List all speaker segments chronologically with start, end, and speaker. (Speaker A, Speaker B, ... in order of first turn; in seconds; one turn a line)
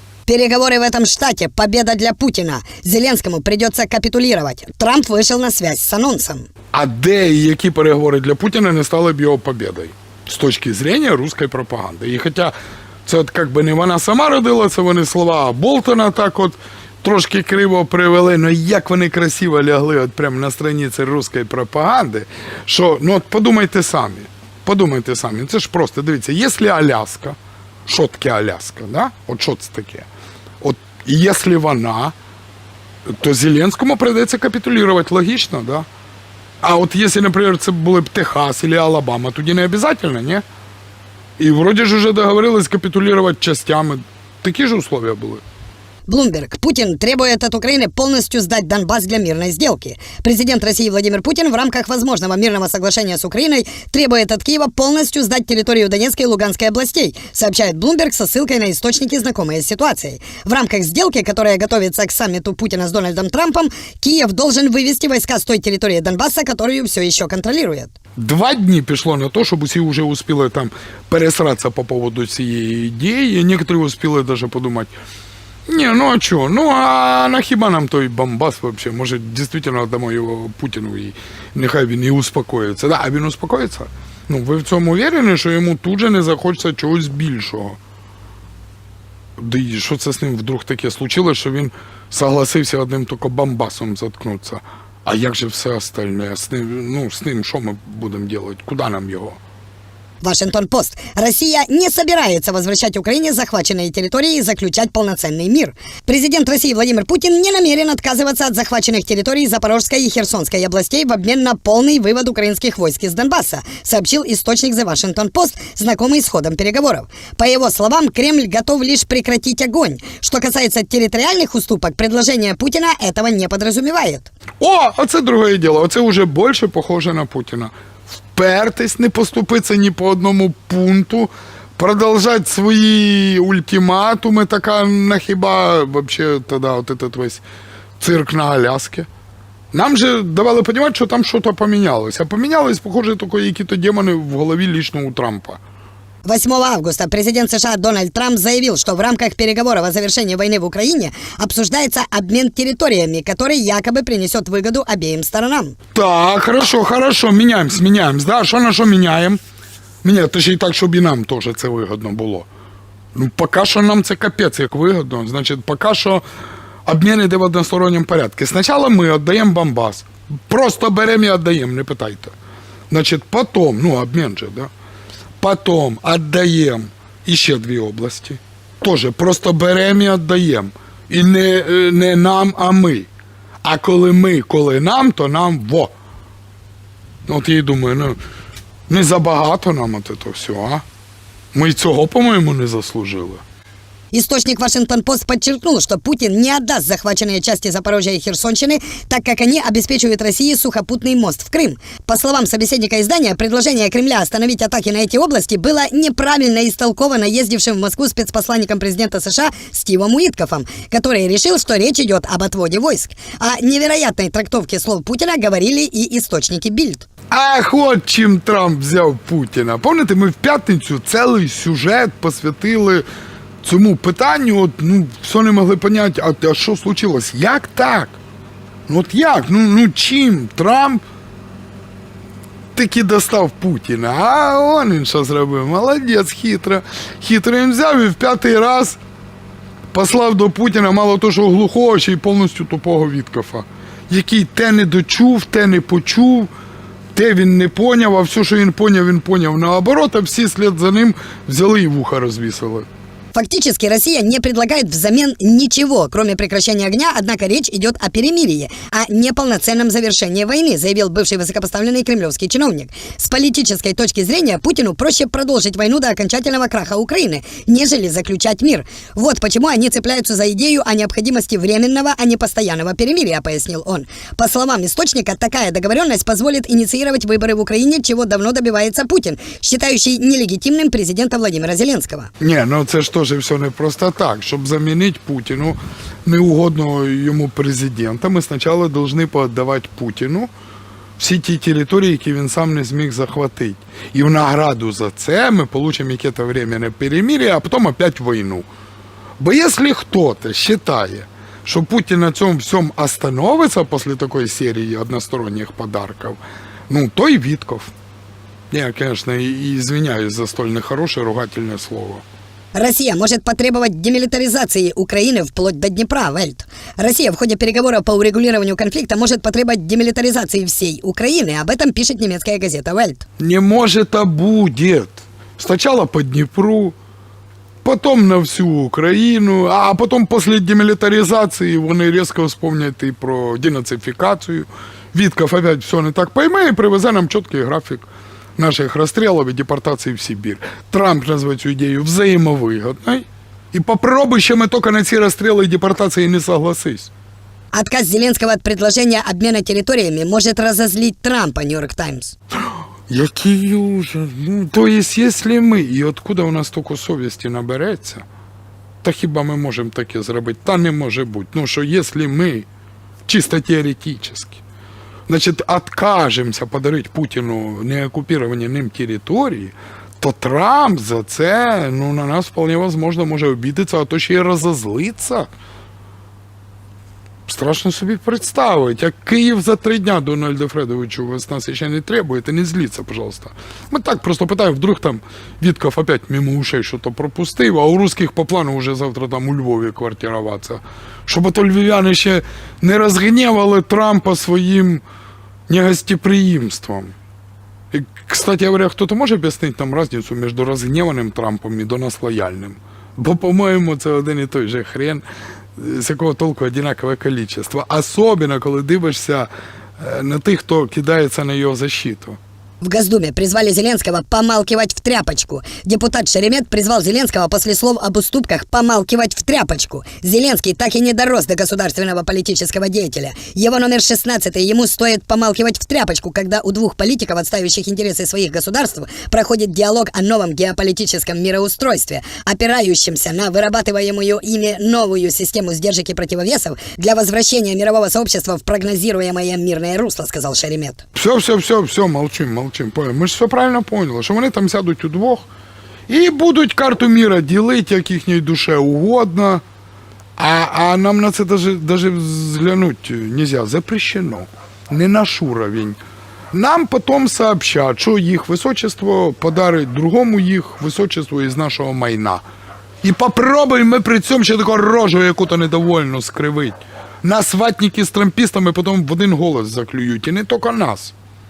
Speaker A: 0.3-6.5
Speaker B: 6.7-12.5
Speaker B: 13.1-30.1
Speaker B: 30.6-32.1
Speaker B: 33.1-35.9
Speaker B: 36.6-40.4
Speaker B: 41.4-45.4
Speaker A: 46.1-67.9
Speaker B: 68.2-74.9
Speaker B: 75.7-87.8
Speaker B: 89.4-99.4
Speaker A: 100.2-124.3
Speaker B: 124.6-127.7
Speaker B: 128.3-137.4
Speaker B: 138.0-139.1
Speaker B: 139.7-145.6
Speaker A: 146.2-155.8
Speaker B: 155.9-159.4
Speaker B: 160.0-162.5
Speaker B: 163.2-166.2
Speaker B: 166.9-172.3
Speaker B: 172.9-174.7
Speaker B: 175.4-183.1
Speaker B: 183.6-185.9
Speaker B: 187.3-188.2
Speaker B: 188.9-190.8
Speaker B: 191.5-193.4
Speaker A: 194.1-217.1
Speaker B: 217.3-223.1
Speaker B: 223.6-228.2
Speaker B: 228.9-231.0
Speaker B: 232.8-239.0
Speaker B: 239.9-246.5
Speaker B: 247.1-252.9
Speaker A: 253.3-282.3
Speaker B: 282.4-290.5
Speaker B: 291.2-298.7
Speaker B: 299.4-307.9
Speaker B: 308.7-312.2
Speaker A: 312.7-323.2
Speaker B: 323.4-327.0
Speaker B: 327.8-347.1
Speaker A: 347.7-352.4
Speaker B: 353.1-358.2
Speaker B: 359.0-362.7
Speaker B: 363.3-364.6
Speaker B: 365.3-375.5
Speaker B: 377.5-395.0
Speaker B: 395.7-397.1
Speaker B: 397.9-405.2
Speaker B: 405.8-412.4
Speaker A: 412.8-441.0
Speaker B: 441.1-445.5
Speaker B: 446.1-449.6
Speaker B: 450.4-456.0
Speaker B: 456.5-462.4
Speaker B: 463.0-471.1